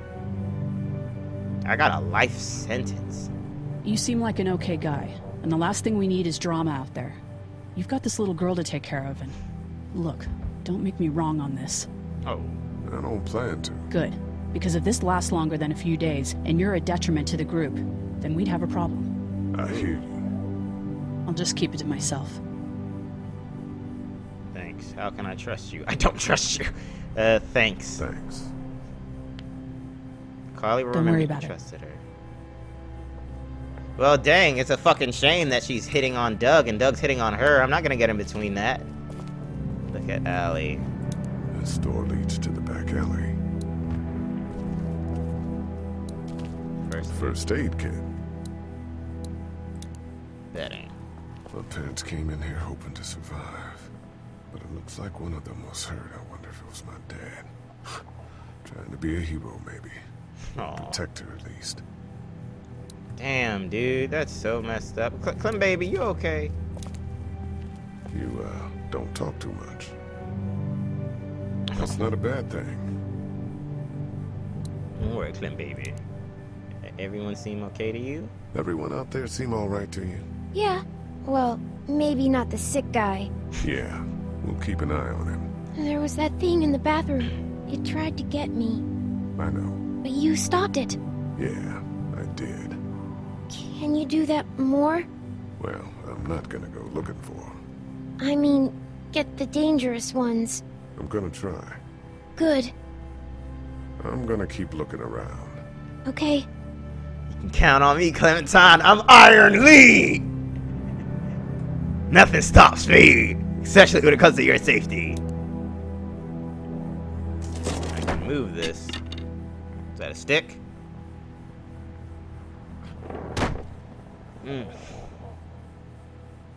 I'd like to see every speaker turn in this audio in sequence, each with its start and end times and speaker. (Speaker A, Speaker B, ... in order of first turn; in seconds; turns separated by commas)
Speaker A: 1.6-3.3, Speaker B: 3.8-7.2, Speaker B: 7.7-9.3, Speaker B: 9.9-11.9, Speaker A: 12.2-12.6, Speaker C: 12.8-13.9, Speaker B: 13.9-19.1, Speaker C: 19.5-20.2, Speaker B: 21.3-22.4, Speaker A: 24.5-28.0, Speaker C: 28.0-28.5, Speaker A: 30.5-32.0, Speaker B: 30.9-31.5, Speaker A: 34.0-38.9, Speaker A: 39.9-40.9, Speaker C: 41.5-43.4, Speaker A: 46.8-47.4, Speaker C: 47.1-48.1, Speaker A: 50.5-50.9, Speaker C: 51.5-53.9, Speaker C: 54.5-58.0, Speaker C: 58.6-60.0, Speaker A: 60.5-61.0, Speaker C: 60.8-61.8, Speaker A: 63.2-66.5, Speaker C: 68.1-69.9, Speaker C: 71.8-72.9, Speaker A: 75.0-76.0, Speaker A: 76.8-78.3, Speaker C: 78.5-80.2, Speaker D: 80.5-83.3, Speaker C: 83.6-85.5, Speaker D: 85.7-88.8, Speaker C: 89.3-89.8, Speaker D: 90.0-91.0, Speaker C: 91.3-92.8, Speaker D: 93.5-95.0, Speaker C: 95.6-97.6, Speaker D: 98.2-100.6, Speaker C: 101.0-101.8, Speaker D: 102.4-102.7, Speaker C: 104.0-105.6, Speaker D: 106.0-106.5, Speaker A: 107.3-110.2, Speaker A: 112.1-115.2, Speaker A: 117.9-119.0, Speaker A: 120.0-120.6, Speaker A: 124.4-124.7